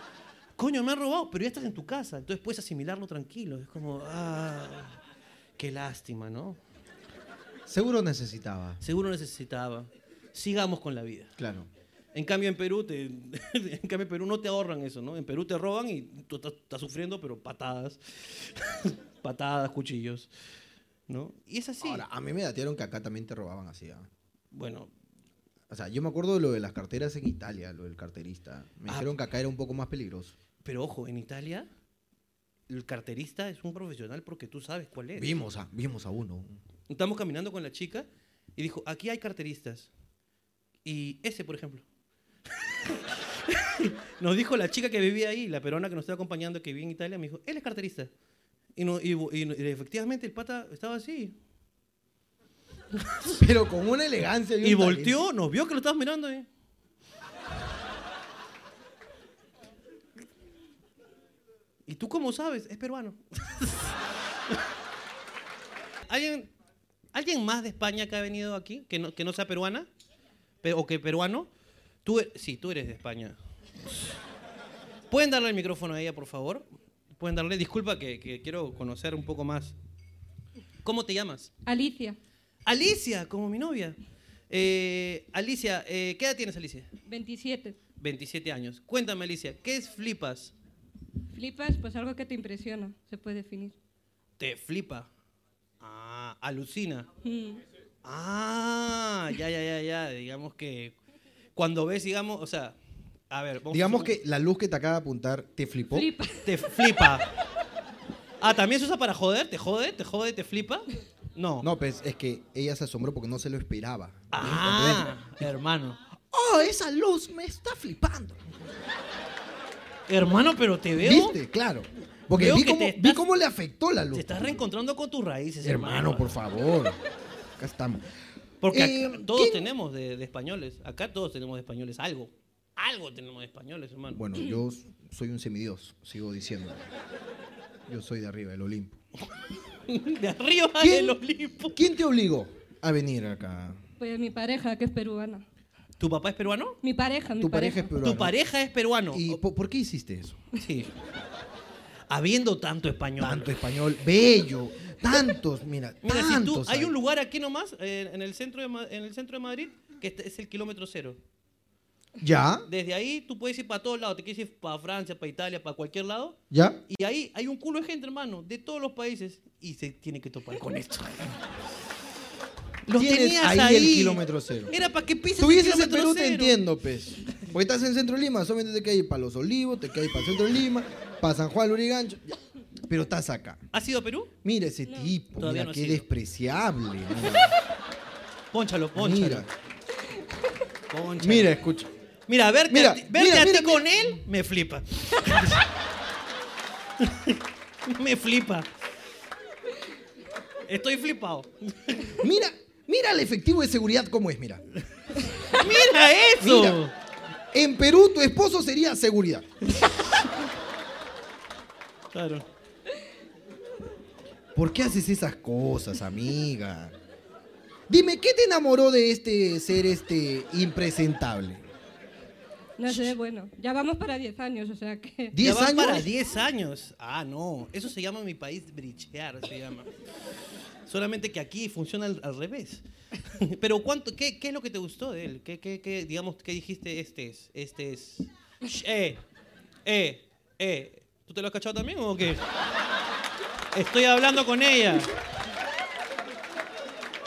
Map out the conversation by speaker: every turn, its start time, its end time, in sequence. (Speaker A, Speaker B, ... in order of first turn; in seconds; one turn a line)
Speaker A: 0.6-5.0
Speaker A: 5.6-6.6
Speaker B: 7.7-8.8
Speaker A: 8.8-11.3
Speaker B: 11.4-11.7
Speaker A: 12.1-20.3
Speaker A: 21.1-22.1
Speaker B: 21.8-24.1
Speaker A: 24.5-24.9
Speaker B: 25.7-30.4
Speaker A: 30.6-31.7
Speaker A: 32.7-35.3
Speaker B: 35.2-36.6
Speaker A: 36.9-39.9
Speaker A: 40.9-41.9
Speaker A: 42.9-48.1
Speaker A: 48.8-51.4
Speaker B: 53.4-55.2
Speaker A: 54.6-56.5
Speaker A: 61.9-64.0
Speaker A: 66.1-66.5
Speaker A: 67.1-69.9
Speaker A: 70.6-71.5
Speaker A: 72.0-73.4
Speaker A: 75.1-76.7
Speaker A: 77.2-79.8
Speaker A: 80.8-81.5
Speaker C: 81.7-82.2
Speaker A: 82.7-84.0
Speaker A: 84.5-86.9
Speaker C: 87.1-87.8
Speaker A: 88.0-90.5
Speaker C: 91.3-93.8
Speaker A: 94.4-95.1
Speaker A: 95.8-97.1
Speaker C: 97.2-97.6
Speaker A: 98.0-101.0
Speaker A: 101.6-102.8
Speaker A: 103.3-104.2
Speaker B: 103.7-106.1
Speaker C: 105.9-107.1
Speaker A: 106.5-107.3
Speaker A: 108.4-111.7
Speaker B: 111.6-115.5
Speaker A: 114.3-116.0
Speaker B: 116.3-118.4
Speaker A: 120.1-121.4
Speaker B: 121.0-124.6
Speaker A: 122.3-123.2
Speaker A: 124.1-126.3
Speaker B: 125.6-127.0
Speaker B: 127.6-128.1
Speaker A: 128.6-134.2
Speaker B: 128.7-129.7
Speaker B: 134.1-136.8
Speaker B: 137.9-139.0
Speaker A: 139.9-141.8
Speaker B: 140.8-143.8
Speaker C: 144.0-145.4
Speaker A: 146.0-146.8
Speaker C: 146.8-147.9
Speaker B: 147.4-148.3
Speaker A: 148.0-149.4
Speaker B: 149.1-150.4
Speaker A: 150.6-150.9
Speaker A: 152.1-153.6
Speaker B: 153.2-156.9
Speaker A: 156.0-161.2
Speaker B: 162.2-162.7
Speaker A: 162.7-171.4
Speaker B: 166.5-166.8
Speaker A: 172.9-176.6
Speaker B: 172.9-174.7
Speaker B: 175.4-182.4
Speaker B: 182.9-183.6
Speaker A: 183.7-184.3
Speaker B: 184.4-187.5
Speaker A: 185.4-186.1
Speaker A: 188.5-189.5
Speaker B: 188.9-189.5
Speaker A: 190.9-191.6
Speaker B: 191.2-191.9
Speaker A: 192.3-195.6
Speaker B: 192.7-194.2
Speaker A: 197.0-198.7
Speaker A: 200.7-202.2
Speaker B: 202.2-204.6
Speaker A: 205.5-206.9
Speaker B: 206.4-206.8
Speaker B: 207.5-209.5
Speaker A: 209.7-210.2
Speaker A: 212.1-212.5
Speaker B: 214.6-216.9
Speaker B: 217.9-221.7
Speaker C: 222.8-225.4
Speaker B: 225.3-226.1
Speaker A: 225.4-229.9
Speaker A: 230.9-239.2
Speaker A: 239.8-242.4
Speaker A: 243.7-245.1